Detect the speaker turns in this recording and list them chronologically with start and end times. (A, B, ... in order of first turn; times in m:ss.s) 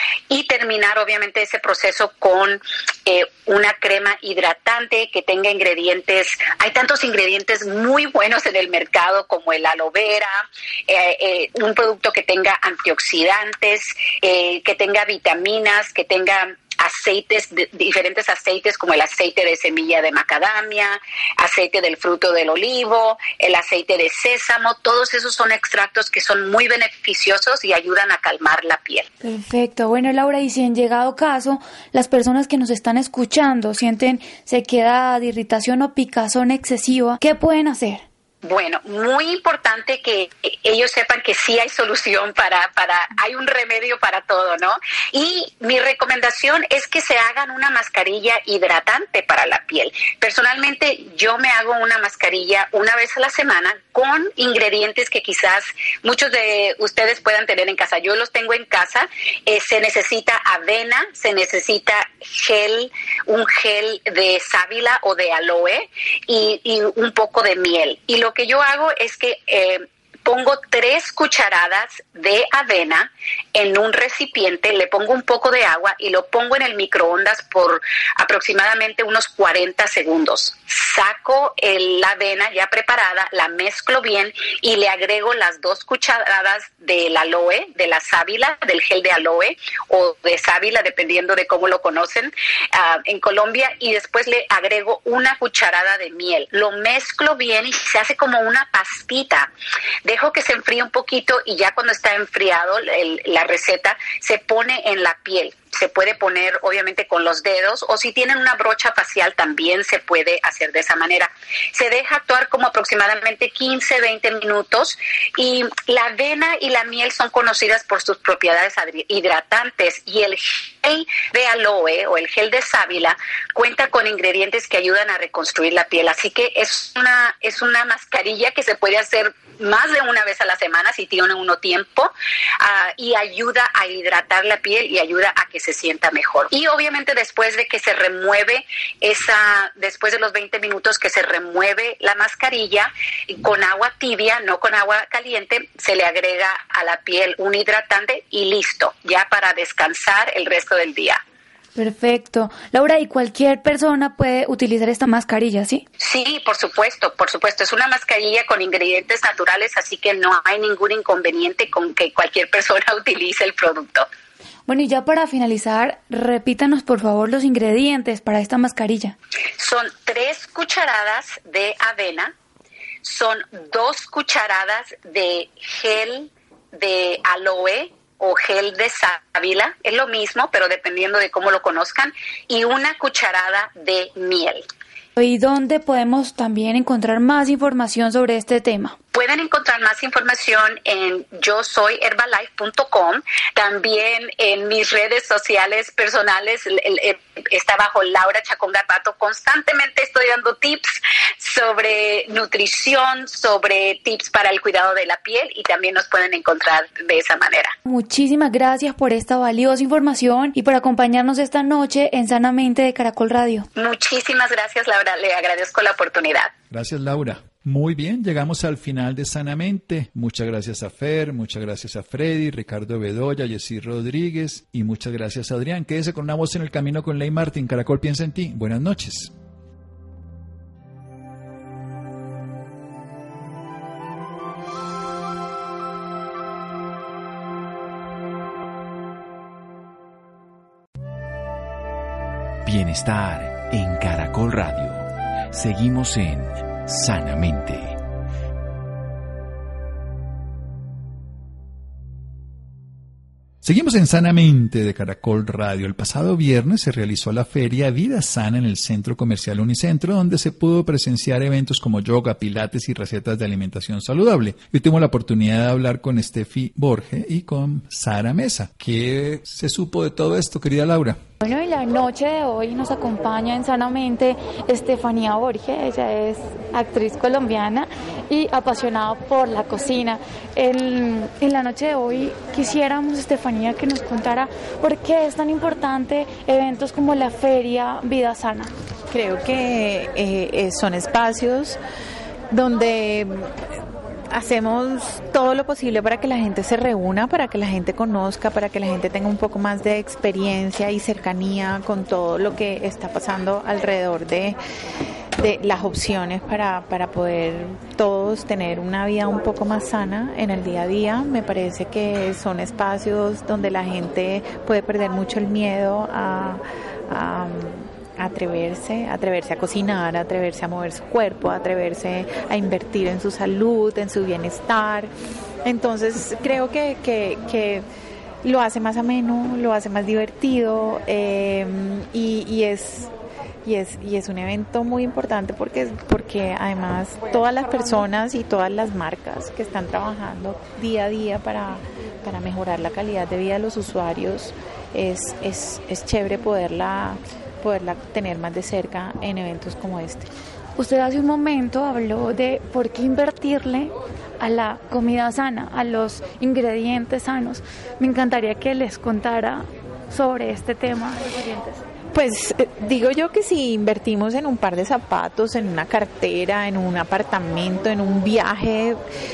0:00.3-0:29.1 A
0:29.2-0:38.0 B
0:38.4-1:39.5 A
1:40.0-2:31.2 A
2:31.8-2:35.8 B
2:36.0-2:44.1 A
2:44.7-2:49.2 B
2:49.6-2:52.3 A
2:53.0-3:04.6 A
3:05.2-3:09.0 B
3:09.1-3:27.8 A
3:27.9-3:33.7 B
3:33.8-3:36.5 A
3:36.7-3:49.3 C
4:02.6-4:08.0 D
4:13.6-4:31.2 C
4:31.4-4:48.7 B
4:49.1-4:51.8 E
4:52.5-4:53.5 E
4:54.3-5:04.6 E
5:05.4-5:25.1 E
5:25.6-5:27.8 E
5:28.4-5:33.1 E
5:33.6-5:50.3 E
5:50.8-6:01.8 B
6:02.1-6:09.0 E